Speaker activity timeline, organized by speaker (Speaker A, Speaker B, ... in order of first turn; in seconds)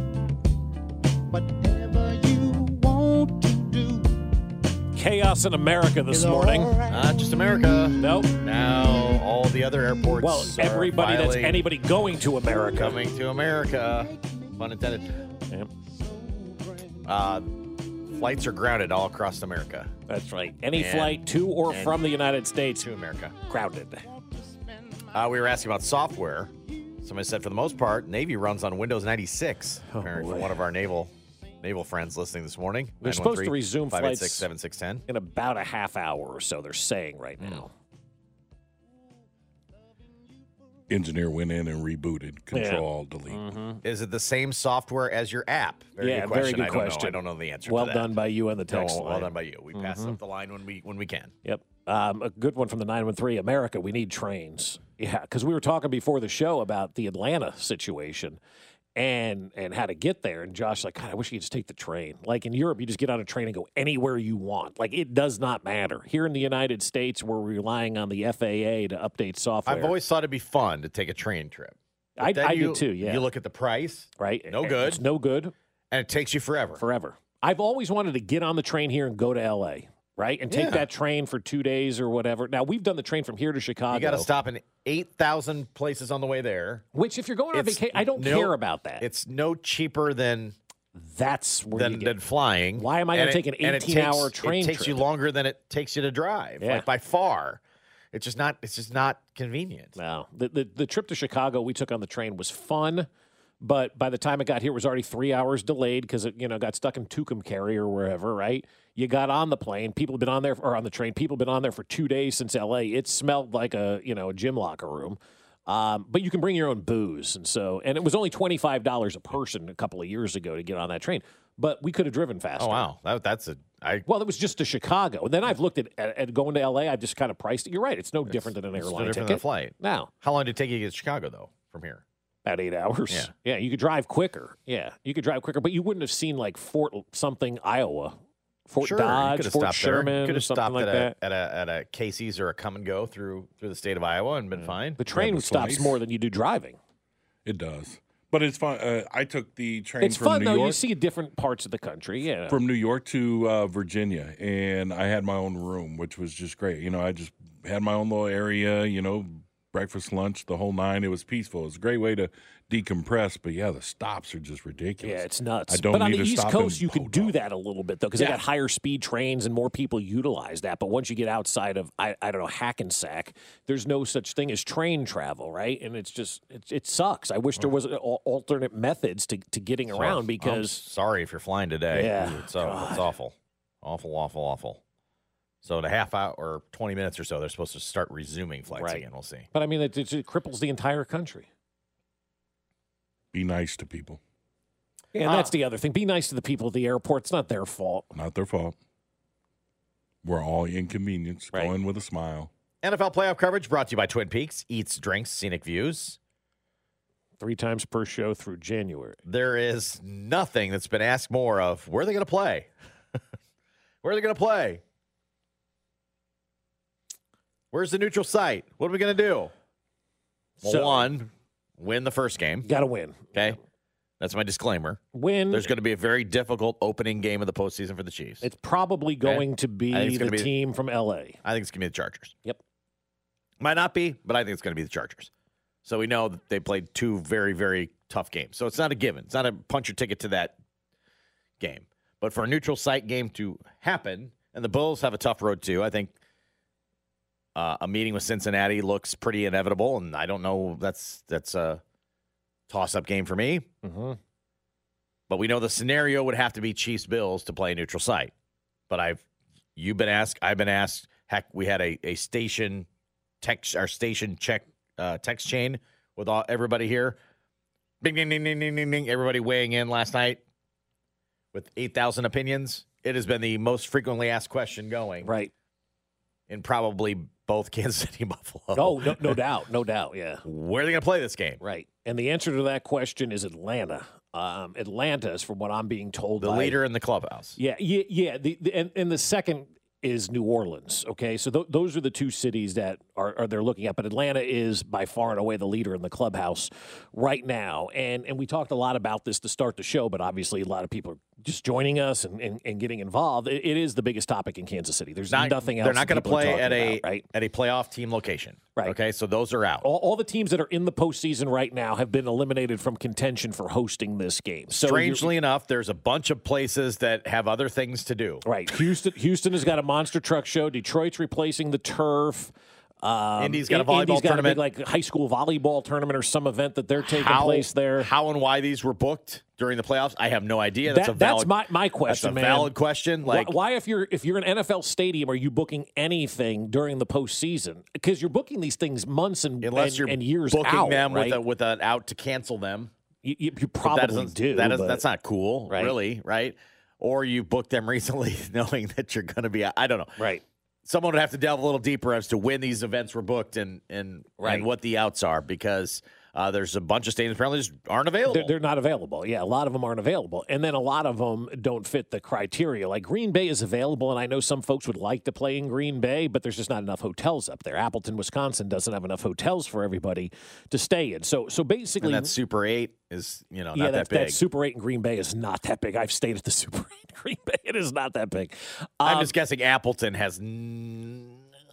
Speaker A: 1.3-4.2, 6.1-7.9, 12.4-12.8, 13.4-17.1, 24.1-25.1
Speaker B: 5.0-6.8, 8.0-8.4, 10.2-13.0, 20.1-22.9, 23.5-24.1, 29.9-30.6, 33.0-34.5, 35.1-37.7, 42.5-43.8, 46.0-50.2, 51.5-58.4, 59.0-70.0, 72.2-73.2, 74.2-75.5, 76.8-84.3, 86.9-89.1, 91.0-92.2, 92.8-95.0, 96.6-96.9, 100.0-103.1, 103.6-122.9, 124.1-130.1, 132.4-141.2, 145.0-146.8, 150.0-152.6, 165.0-180.8, 181.9-183.1, 188.7-191.5, 195.1-198.1, 207.4-209.2, 220.6-221.1, 222.6-223.6, 225.1-225.7, 228.4-231.4, 253.8-254.2, 275.2-275.5, 278.8-280.4, 281.6-286.8, 287.6-307.2, 309.8-315.3, 318.4-328.1, 330.9-341.4, 343.2-345.0, 345.7-346.0, 350.2-350.4, 354.4-354.7, 358.3-372.3, 373.8-379.3
Speaker C: 6.9-11.7, 12.7-15.2, 17.1-17.5, 18.1-19.9, 20.7-22.1, 22.8-23.4, 25.1-26.5, 27.0-35.0, 37.4-37.6, 43.8-48.1, 48.7-51.3, 69.7-75.0, 75.9-76.8, 80.5-80.9, 83.9-86.8, 87.5-90.6, 91.7-97.6, 98.1-100.0, 122.6-124.1, 128.3-132.0, 138.8-145.0, 179.9-184.8, 185.6-189.5, 195.2-195.5, 202.8-206.2, 209.3-212.7, 214.0-214.8, 217.7-219.5, 220.6-222.7, 224.2-228.4, 229.2-230.5, 231.4-232.4, 233.6-235.3, 235.8-240.6, 241.6-246.1, 247.6-251.8, 252.7-253.7, 255.3-258.3, 258.9-259.2, 259.8-262.9, 263.4-267.2, 268.0-270.4, 271.5-275.3, 276.5-279.4, 280.4-281.6, 286.4-287.6, 305.3-309.9, 314.7-318.4, 323.4-324.6, 327.0-331.5, 332.1-333.6, 339.6-342.9, 343.8-350.2, 350.9-358.5, 372.0-374.4, 379.0-381.4
Speaker D: 40.9-43.5, 145.1-146.0, 147.4-150.8, 152.5-167.3, 193.3-194.2, 198.1-198.8, 200.2-202.5